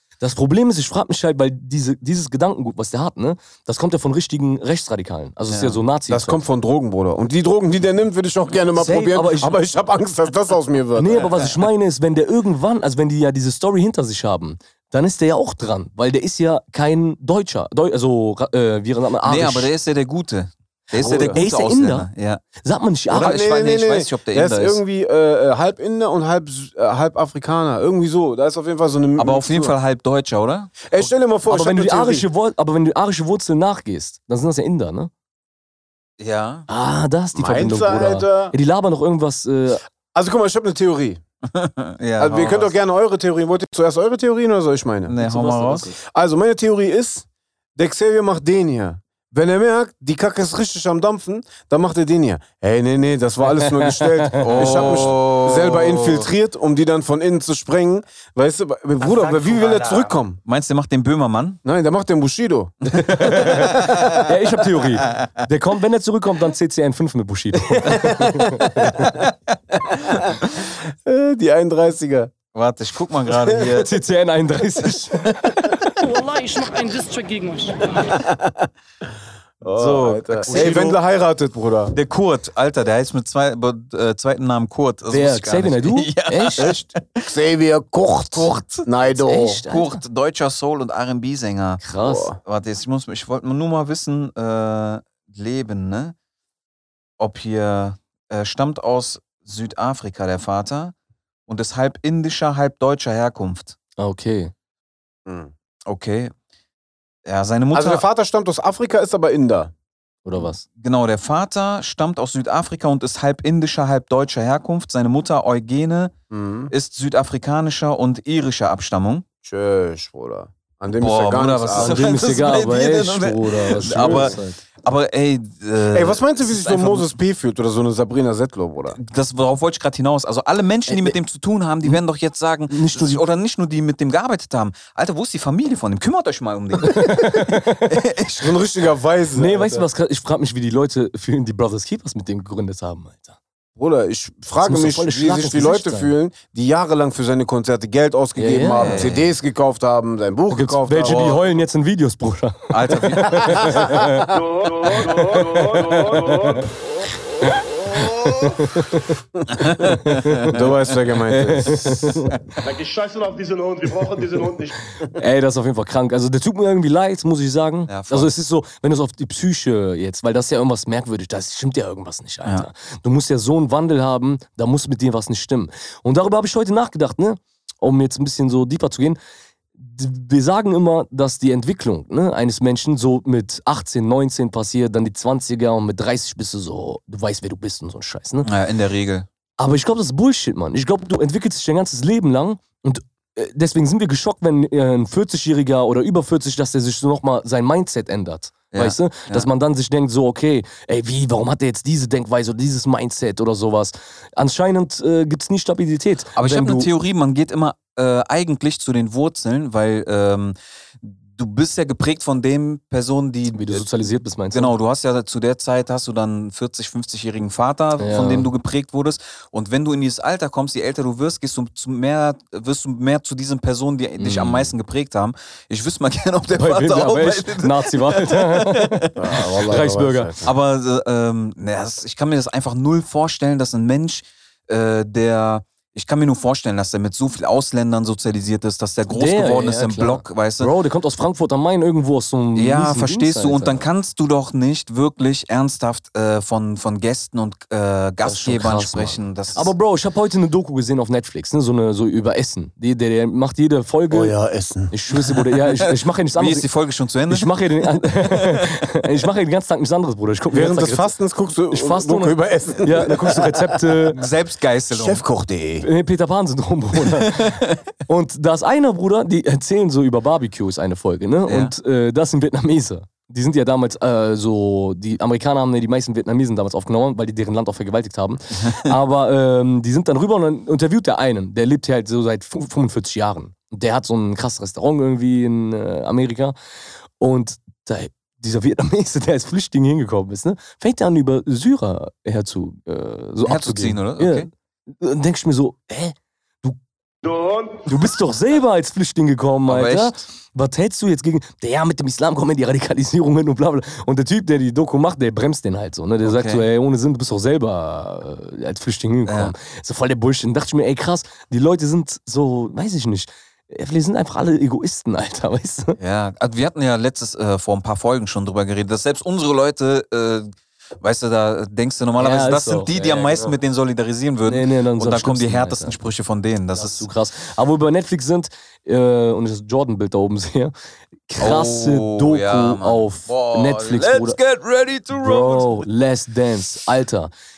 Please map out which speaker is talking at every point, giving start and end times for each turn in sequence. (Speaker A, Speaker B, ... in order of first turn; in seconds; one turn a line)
Speaker A: 0.2-6.4
Speaker B: 5.5-5.8
Speaker C: 6.1-11.3
Speaker A: 8.8-9.6
Speaker A: 11.0-19.7
Speaker B: 11.2-11.6
Speaker B: 19.2-22.4
Speaker A: 20.9-22.1
Speaker C: 21.1-21.4
Speaker A: 22.6-23.4
Speaker C: 23.1-29.7
Speaker B: 23.1-24.8
Speaker B: 29.2-30.9
Speaker C: 30.9-32.3
Speaker A: 31.5-35.1
Speaker B: 36.2-36.7
Speaker A: 36.7-39.8
Speaker C: 37.4-38.5
Speaker C: 40.1-41.2
Speaker B: 41.5-42.7
Speaker C: 42.2-45.2
Speaker B: 45.1-45.9
Speaker A: 45.2-46.0
Speaker C: 46.0-47.2
Speaker C: 47.8-60.4
Speaker A: 53.6-54.8
Speaker B: 54.4-56.3
Speaker B: 60.5-61.6
Speaker C: 61.6-64.0
Speaker A: 62.9-69.1
Speaker B: 63.3-64.2
Speaker C: 67.9-68.9
Speaker C: 69.8-72.3
Speaker B: 72.5-74.0
Speaker A: 73.7-75.8
Speaker D: 76.0-78.0
Speaker C: 78.1-78.7
Speaker C: 79.6-82.0
Speaker B: 79.7-81.0
Speaker A: 80.5-81.0
Speaker B: 81.9-87.2
Speaker A: 85.1-86.7
Speaker C: 86.6-89.6
Speaker B: 88.4-88.8
Speaker A: 89.0-90.0
Speaker B: 89.7-91.8
Speaker A: 91.8-92.3
Speaker C: 92.0-92.4
Speaker B: 92.4-96.1
Speaker B: 97.2-100.9
Speaker B: 101.5-103.8
Speaker A: 104.0-104.5
Speaker C: 105.3-105.5
Speaker B: 105.9-106.3
Speaker B: 107.3-108.0
Speaker C: 107.7-109.7
Speaker A: 110.2-110.6
Speaker B: 110.8-116.1
Speaker C: 116.3-116.7
Speaker B: 116.7-119.2
Speaker C: 119.4-122.2
Speaker B: 120.9-127.1
Speaker A: 121.8-124.6
Speaker C: 123.8-124.3
Speaker C: 125.9-129.0
Speaker B: 129.0-138.7
Speaker A: 130.9-131.2
Speaker A: 132.7-133.2
Speaker A: 136.8-137.9
Speaker C: 138.4-139.9
Speaker A: 139.4-143.4
Speaker C: 143.8-151.4
Speaker A: 144.6-146.1
Speaker A: 148.4-149.2
Speaker B: 148.7-149.2
Speaker A: 150.5-154.3
Speaker B: 151.1-151.4
Speaker B: 152.7-153.8
Speaker E: 154.3-156.7
Speaker A: 155.2-156.7
Speaker A: 157.4-159.2
Speaker B: 159.5-160.7
Speaker A: 159.8-160.5
Speaker C: 160.4-162.2
Speaker A: 161.3-162.4
Speaker E: 162.6-164.9
Speaker A: 165.2-179.2
Speaker B: 167.9-168.3
Speaker A: 179.8-188.5
Speaker B: 188.4-189.3
Speaker A: 189.6-206.9
Speaker B: 198.7-199.5
Speaker B: 206.4-213.8
Speaker A: 213.5-214.7
Speaker B: 214.5-229.1
Speaker A: 218.0-218.5
Speaker A: 224.2-224.7
Speaker A: 226.5-230.3
Speaker C: 229.2-230.5
Speaker B: 230.4-240.7
Speaker A: 239.1-243.9
Speaker B: 242.6-249.7
Speaker A: 248.2-254.4
Speaker C: 254.1-254.9
Speaker A: 254.9-256.7
Speaker B: 255.2-257.5
Speaker A: 257.3-261.1
Speaker C: 260.5-263.8
Speaker A: 261.7-264.2
Speaker B: 264.1-265.2
Speaker C: 264.9-265.9
Speaker A: 265.8-286.6
Speaker B: 267.1-267.8
Speaker B: 271.5-271.7
Speaker A: 287.2-296.8
Speaker B: 293.4-294.5
Speaker E: 297.2-297.9
Speaker A: 297.9-316.0
Speaker B: 299.7-300.2
Speaker B: 306.2-306.6
Speaker B: 309.3-309.5
Speaker B: 316.0-327.1
Speaker A: 322.2-323.5
Speaker A: 324.5-326.0
Speaker A: 326.7-330.7
Speaker A: 331.3-334.4
Speaker B: 331.4-335.9
Speaker A: 335.1-337.3